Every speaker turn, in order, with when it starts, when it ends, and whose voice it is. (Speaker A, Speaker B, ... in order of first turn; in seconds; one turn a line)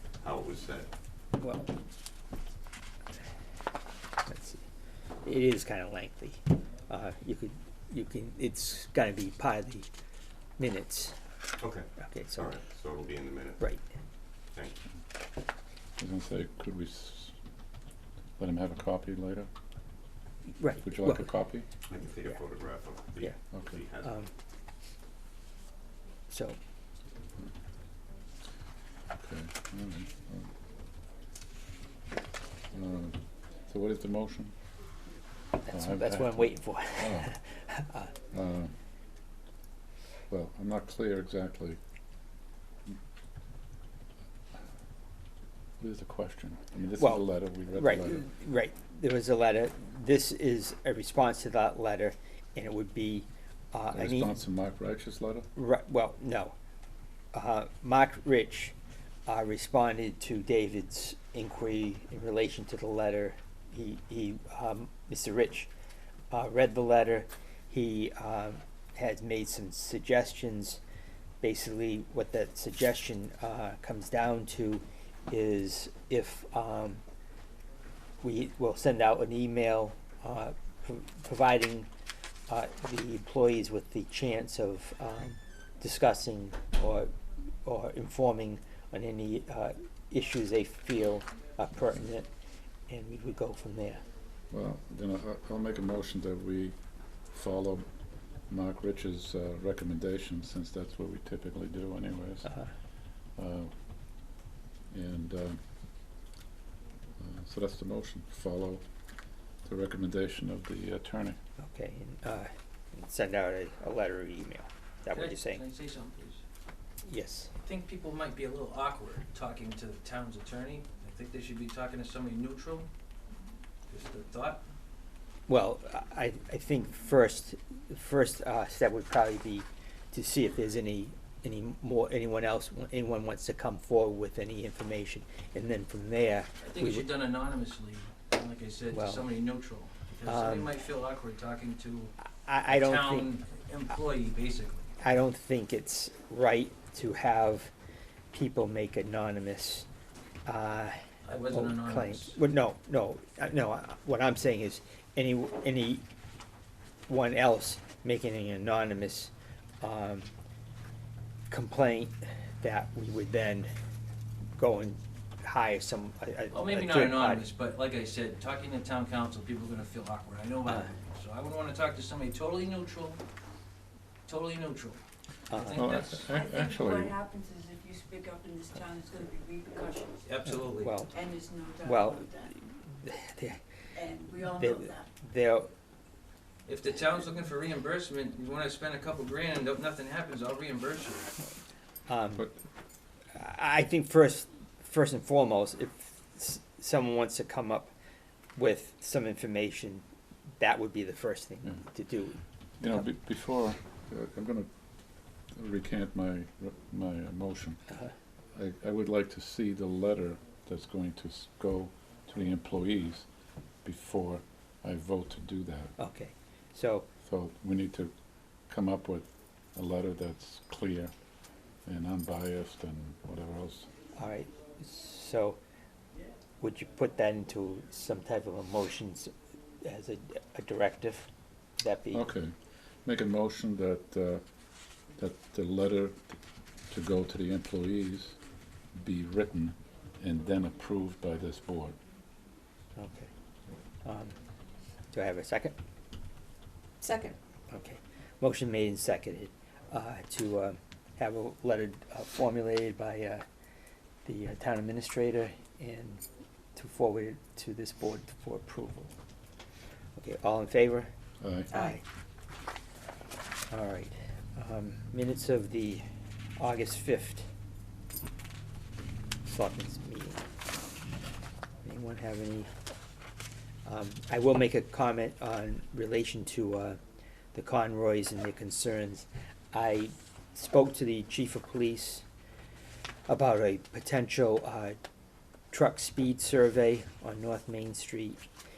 Speaker A: 0.2-0.9
Speaker B: 1.4-1.7
Speaker B: 4.3-4.6
Speaker B: 5.2-9.9
Speaker B: 10.6-11.2
Speaker A: 11.6-13.7
Speaker B: 12.0-12.5
Speaker A: 14.5-14.8
Speaker C: 16.0-17.3
Speaker C: 18.4-19.5
Speaker B: 20.5-21.3
Speaker C: 20.8-21.7
Speaker A: 21.9-24.1
Speaker C: 23.5-23.8
Speaker B: 24.0-24.3
Speaker B: 26.3-26.6
Speaker C: 29.2-30.5
Speaker C: 32.7-34.5
Speaker B: 35.6-38.1
Speaker C: 35.7-37.3
Speaker C: 38.3-38.7
Speaker C: 40.3-41.8
Speaker C: 45.8-48.2
Speaker B: 47.0-54.4
Speaker C: 53.9-55.5
Speaker B: 55.5-56.5
Speaker B: 57.3-58.7
Speaker B: 59.3-65.7
Speaker B: 66.3-70.8
Speaker B: 71.4-77.0
Speaker B: 78.2-81.9
Speaker B: 82.5-87.1
Speaker B: 87.6-92.3
Speaker B: 92.9-94.0
Speaker C: 94.5-96.8
Speaker C: 97.3-97.8
Speaker C: 98.5-102.5
Speaker C: 103.3-103.7
Speaker C: 104.9-105.6
Speaker C: 107.2-108.8
Speaker C: 109.6-111.4
Speaker B: 111.6-115.6
Speaker D: 115.1-116.4
Speaker B: 117.0-117.5
Speaker D: 117.6-122.9
Speaker D: 123.9-124.6
Speaker B: 125.5-137.1
Speaker D: 136.6-142.1
Speaker B: 138.9-139.3
Speaker B: 140.2-140.7
Speaker B: 142.4-143.3
Speaker D: 142.7-144.9
Speaker B: 145.0-147.7
Speaker B: 148.3-149.9
Speaker B: 150.4-151.0
Speaker D: 151.2-152.4
Speaker B: 151.5-156.0
Speaker B: 157.1-160.3
Speaker B: 161.5-163.7
Speaker B: 164.6-167.4
Speaker D: 166.5-173.2
Speaker D: 174.2-176.3
Speaker B: 175.5-175.9
Speaker C: 175.8-177.1
Speaker E: 176.2-180.2
Speaker D: 180.2-180.9
Speaker B: 180.5-181.1
Speaker E: 181.1-182.5
Speaker B: 181.8-183.6
Speaker E: 183.9-185.1
Speaker B: 184.3-185.7
Speaker D: 186.7-191.3
Speaker B: 192.1-192.4
Speaker B: 193.3-197.9
Speaker B: 198.6-200.0
Speaker B: 200.6-202.4
Speaker C: 202.8-204.7
Speaker C: 205.5-207.8
Speaker C: 208.5-213.2
Speaker C: 213.8-215.9
Speaker B: 216.0-217.1
Speaker C: 217.2-218.1
Speaker C: 218.7-221.1
Speaker C: 221.8-223.9
Speaker B: 224.2-225.6
Speaker B: 226.6-229.3
Speaker B: 229.8-231.3
Speaker B: 231.8-232.2
Speaker C: 232.1-234.4
Speaker C: 235.2-236.4
Speaker C: 236.9-238.4
Speaker C: 238.9-242.0
Speaker B: 242.9-243.3
Speaker B: 244.0-244.3
Speaker B: 245.1-245.7
Speaker E: 247.0-247.3
Speaker B: 247.7-253.4
Speaker B: 254.2-256.2
Speaker B: 256.7-259.1
Speaker B: 260.2-261.1
Speaker C: 261.4-261.7
Speaker B: 261.7-262.0
Speaker B: 263.7-266.0
Speaker B: 266.6-267.5
Speaker B: 269.4-270.4
Speaker B: 271.8-272.7
Speaker B: 273.8-277.0
Speaker B: 277.5-282.2
Speaker B: 283.3-285.0
Speaker B: 285.7-288.4